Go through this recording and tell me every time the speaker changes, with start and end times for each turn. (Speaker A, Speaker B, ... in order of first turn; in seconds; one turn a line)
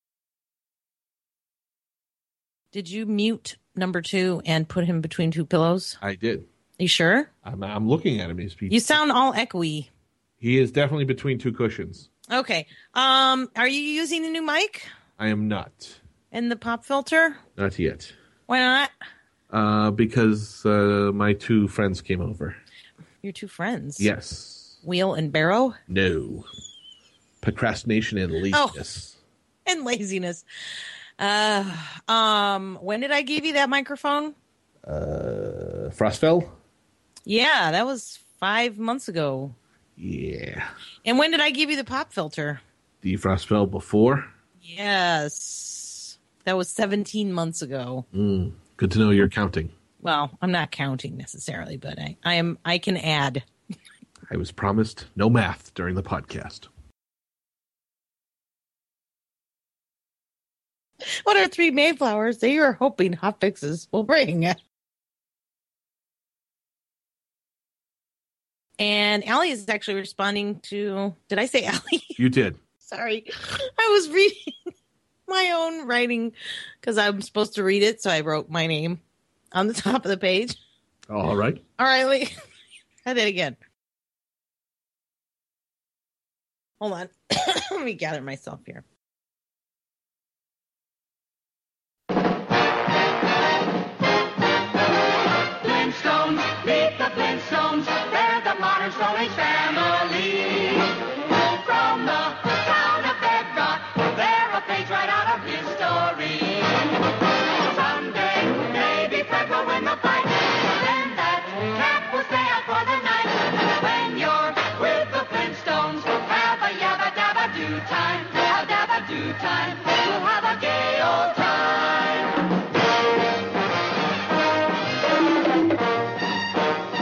Speaker A: 2.7-6.0
Speaker B: 6.0-6.5
Speaker A: 6.8-7.3
Speaker B: 7.4-9.0
Speaker A: 8.7-9.9
Speaker B: 10.4-12.1
Speaker A: 12.3-14.9
Speaker B: 15.2-16.0
Speaker A: 16.3-17.4
Speaker B: 17.6-18.1
Speaker A: 18.5-18.9
Speaker B: 19.5-22.6
Speaker A: 23.2-24.1
Speaker B: 24.0-24.8
Speaker A: 24.8-25.8
Speaker B: 25.9-26.5
Speaker B: 27.4-29.2
Speaker A: 28.5-28.8
Speaker A: 29.6-30.4
Speaker A: 31.2-34.3
Speaker B: 34.9-36.5
Speaker A: 37.2-39.5
Speaker B: 40.0-40.7
Speaker A: 41.0-42.6
Speaker B: 43.0-44.3
Speaker A: 44.6-48.0
Speaker B: 48.1-49.7
Speaker A: 50.0-53.4
Speaker B: 54.3-56.7
Speaker A: 61.1-64.6
Speaker A: 68.8-72.2
Speaker B: 72.2-72.6
Speaker A: 72.8-74.6
Speaker A: 75.3-79.0
Speaker A: 79.5-80.6
Speaker B: 81.1-81.6
Speaker A: 81.8-82.3
Speaker A: 83.0-83.6
Speaker A: 86.8-88.8
Speaker C: 95.6-122.4